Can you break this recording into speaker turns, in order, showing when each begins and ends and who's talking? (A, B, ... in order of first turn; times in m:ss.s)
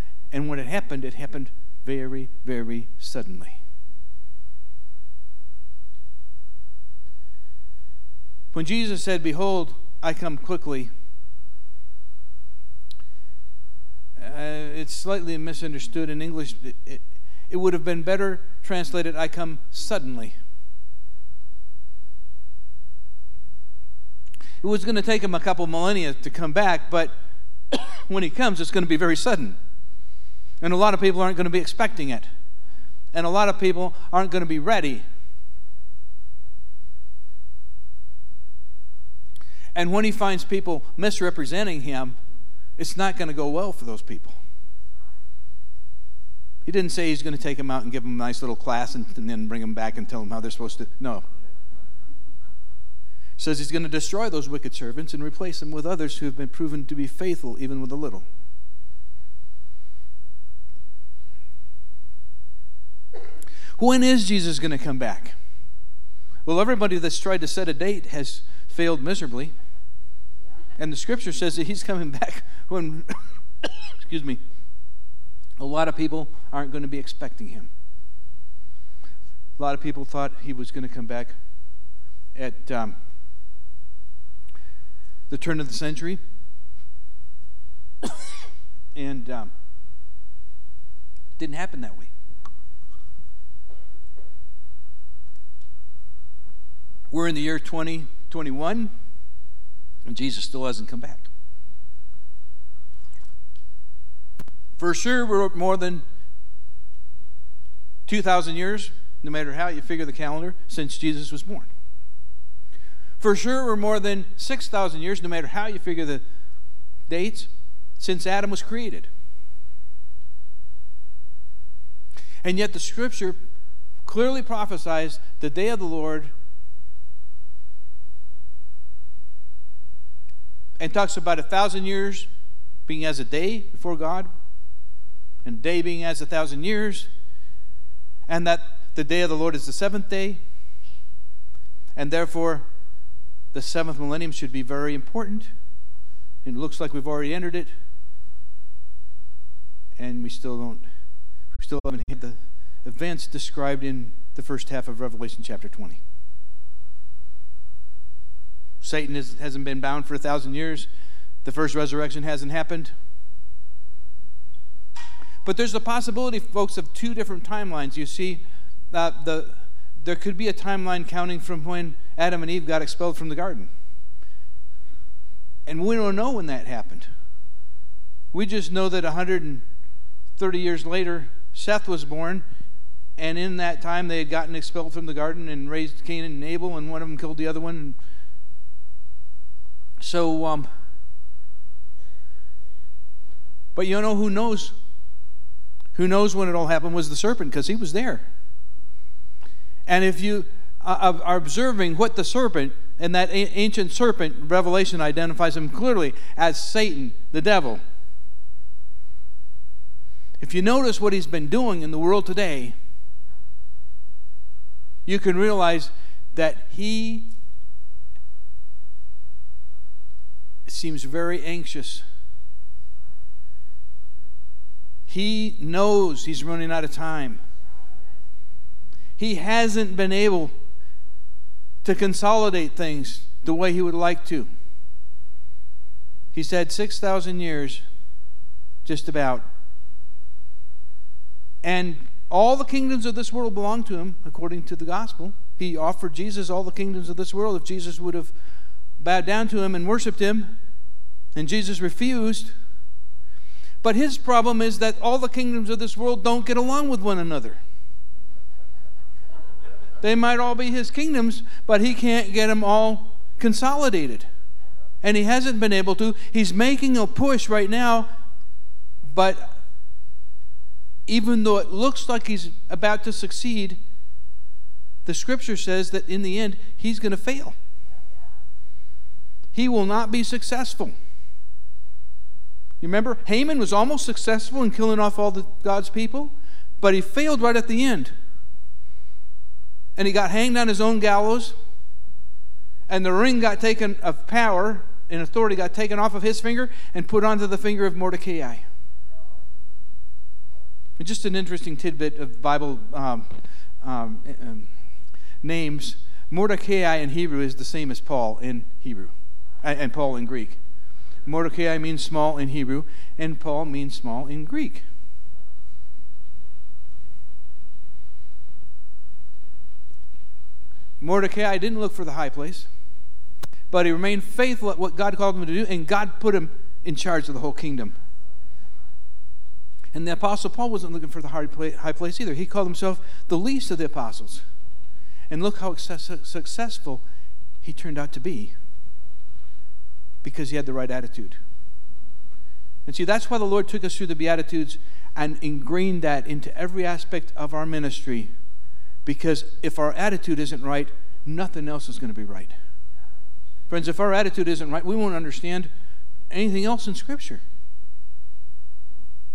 0:00.3-0:03.6 A
0:08.5-0:10.9 A
0:14.2-0:20.3 A
0:24.6-0:27.1 A
0:27.7-0:29.6 A
0:30.6-0:32.2 A
0:33.1-0:35.0 A
0:39.7-0:42.1 A
0:42.8-0:44.4 A
0:46.6-0:51.2 A
0:53.4-0:58.2 A
1:03.8-1:05.3 A
1:06.4-1:09.5 A
1:10.8-1:14.4 A
1:15.6-1:17.7 A
1:19.6-1:21.4 A
1:22.3-1:22.9 A
1:25.3-1:26.2 A
1:28.9-1:29.5 A
1:31.4-1:32.1 A
1:37.1-1:38.9 A
1:40.0-1:41.3 A
1:44.8-1:46.0 A
1:48.0-1:51.7 A
1:53.2-1:56.2 A
1:57.1-1:59.1 A
2:02.4-2:03.4 A
2:04.0-2:06.3 A
2:10.8-2:12.3 A
2:12.9-2:14.3 A
2:15.4-2:17.1 A
2:18.3-2:20.4 A
2:22.0-2:22.6 A
2:23.5-2:25.5 A
2:26.4-2:27.7 A
2:30.0-2:30.8 A
2:31.6-2:36.0 A
2:38.8-2:40.9 A
2:41.4-2:42.9 A
2:45.4-2:53.7 A
2:55.6-2:57.1 A
2:58.3-2:59.6 A
3:00.4-3:02.4 A
3:03.2-3:08.0 A
3:10.0-3:10.6 A
3:13.7-3:14.7 A
3:15.9-3:18.2 A
3:19.9-3:27.8 A
3:30.4-3:32.8 A
3:35.0-3:37.3 A
3:40.6-3:42.0 A
3:45.1-3:47.4 A
3:49.2-3:50.5 A
3:51.8-3:54.5 A
3:56.3-3:57.8 A
3:58.8-3:59.4 A
4:01.6-4:08.3 A
4:09.0-4:10.5 A
4:11.3-4:12.5 A
4:13.8-4:17.6 A
4:20.0-4:24.2 A
4:25.0-4:28.1 A
4:29.1-4:29.5 A
4:31.1-4:33.8 A
4:35.0-4:37.6 A
4:39.5-4:40.9 A
4:42.8-4:48.1 A
4:50.0-4:51.6 A
4:52.9-4:58.6 A
5:01.0-5:03.3 A
5:03.8-5:04.7 A
5:05.4-5:10.6 A
5:11.2-5:14.8 A
5:21.0-5:22.7 A
5:23.7-5:28.0 A
5:29.9-5:34.4 A
5:35.3-5:37.0 A
5:37.6-5:38.5 A
5:40.2-5:41.4 A
5:42.8-5:48.3 A
5:49.0-5:52.6 A
5:53.7-5:55.7 A
5:56.3-5:57.4 A